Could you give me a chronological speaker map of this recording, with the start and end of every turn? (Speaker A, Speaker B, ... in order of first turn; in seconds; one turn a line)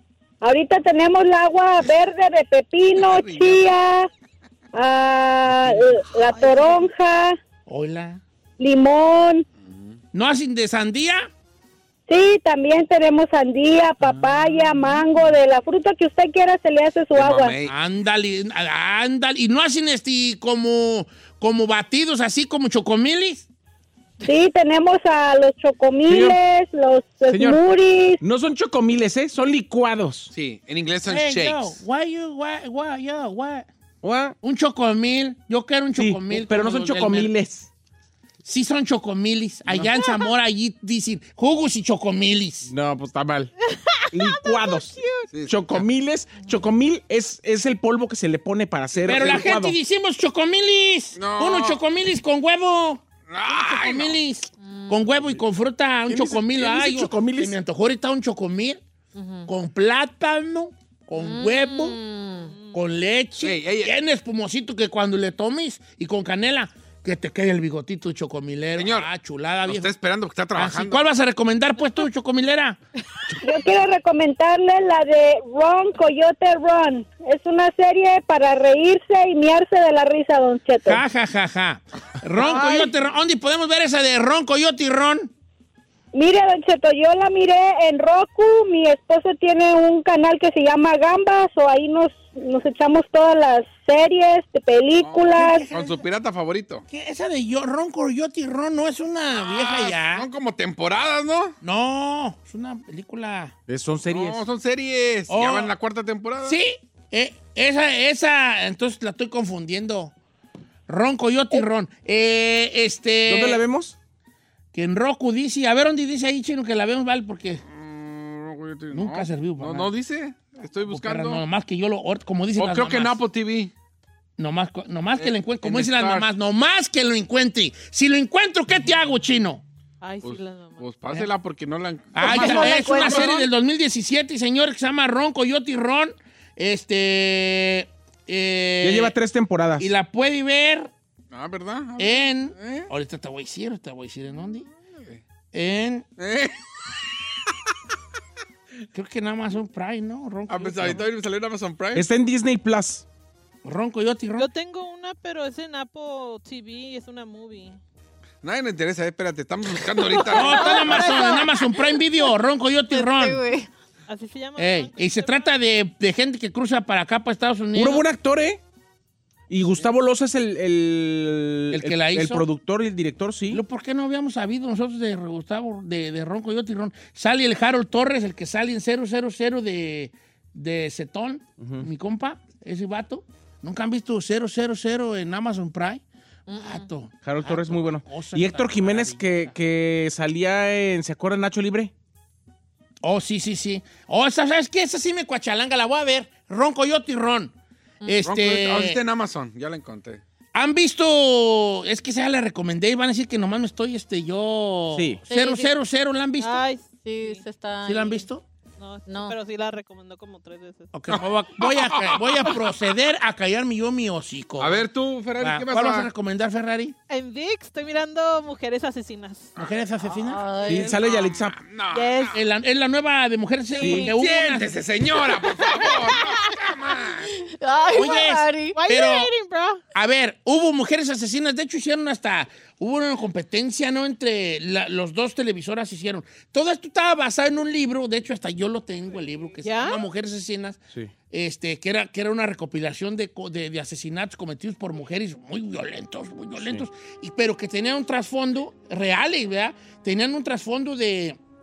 Speaker A: 0.4-4.1
Speaker B: 3.0-3.7
Speaker A: 4.7-7.4
Speaker C: 7.7-8.2
Speaker A: 8.6-9.4
Speaker B: 9.6-10.0
Speaker C: 10.1-11.3
Speaker A: 12.1-17.6
Speaker C: 14.0-15.3
Speaker B: 17.1-17.8
Speaker C: 17.6-23.5
Speaker A: 24.2-28.2
Speaker D: 26.1-26.4
Speaker D: 27.3-27.6
Speaker D: 28.2-30.3
Speaker B: 30.3-31.8
Speaker C: 31.1-33.7
Speaker D: 34.0-34.4
Speaker C: 34.4-37.3
Speaker D: 36.0-37.7
Speaker C: 38.4-42.7
Speaker D: 42.7-43.5
Speaker E: 43.7-45.3
Speaker D: 44.1-45.0
Speaker B: 45.3-45.8
Speaker D: 45.5-49.8
Speaker B: 49.0-49.5
Speaker C: 49.0-58.8
Speaker B: 51.2-51.8
Speaker B: 53.3-54.2
Speaker D: 56.1-57.5
Speaker F: 59.2-59.5
Speaker C: 59.5-62.0
Speaker F: 61.2-62.5
Speaker E: 62.5-62.8
Speaker C: 62.7-69.9
Speaker B: 63.4-63.9
Speaker B: 68.8-69.1
Speaker B: 69.7-71.0
Speaker C: 70.5-72.8
Speaker A: 73.4-81.0
Speaker C: 80.8-85.3
Speaker D: 82.5-82.8
Speaker A: 86.1-95.7
Speaker B: 95.0-96.8
Speaker C: 95.2-96.0
Speaker C: 96.9-100.3
Speaker B: 99.4-101.5
Speaker C: 101.6-103.5
Speaker D: 103.7-104.4
Speaker B: 104.1-106.6
Speaker C: 105.3-105.7
Speaker C: 106.5-110.1
Speaker C: 110.9-113.6
Speaker D: 113.3-114.0
Speaker C: 114.7-117.6
Speaker B: 117.6-121.4
Speaker C: 118.9-119.9
Speaker C: 120.9-123.2
Speaker B: 122.6-123.7
Speaker C: 124.4-129.6
Speaker B: 125.2-126.3
Speaker E: 130.0-130.9
Speaker B: 130.2-133.4
Speaker C: 132.1-139.1
Speaker D: 132.2-133.3
Speaker F: 132.5-133.3
Speaker D: 138.8-139.9
Speaker C: 139.8-140.9
Speaker B: 141.3-142.9
Speaker C: 142.0-144.7
Speaker B: 144.7-145.2
Speaker C: 145.5-146.1
Speaker B: 146.2-146.6
Speaker C: 148.9-151.0
Speaker B: 150.5-152.1
Speaker D: 151.9-153.1
Speaker C: 153.6-154.5
Speaker E: 154.4-157.8
Speaker B: 158.4-161.2
Speaker F: 160.2-162.2
Speaker C: 160.3-163.4
Speaker F: 162.9-163.7
Speaker E: 164.1-165.5
Speaker C: 164.6-168.1
Speaker D: 167.8-168.6
Speaker D: 169.5-173.6
Speaker C: 171.7-172.4
Speaker C: 173.5-186.0
Speaker D: 181.6-181.9
Speaker F: 186.5-186.8
Speaker C: 186.6-189.5
Speaker D: 187.2-191.9
Speaker C: 193.0-199.0
Speaker B: 198.2-200.2
Speaker C: 200.6-206.6
Speaker D: 204.9-205.2
Speaker F: 205.3-205.7
Speaker E: 206.4-207.4
Speaker F: 207.0-208.2
Speaker C: 207.8-208.4
Speaker E: 208.8-210.9
Speaker F: 209.1-209.3
Speaker C: 210.9-214.9
Speaker B: 211.1-212.6
Speaker B: 214.6-216.1
Speaker C: 215.4-216.9
Speaker E: 217.1-219.5
Speaker C: 219.6-220.4
Speaker F: 220.3-220.9
Speaker E: 220.5-221.0
Speaker D: 220.7-221.6
Speaker B: 220.9-222.4
Speaker E: 221.9-222.4
Speaker C: 222.3-224.8
Speaker D: 223.8-224.1
Speaker B: 223.9-227.3
Speaker E: 225.6-226.2
Speaker F: 227.5-228.8
Speaker C: 227.9-229.3
Speaker E: 228.7-229.8
Speaker C: 229.9-240.8
Speaker E: 239.6-240.0
Speaker C: 241.3-251.4
Speaker D: 246.6-246.9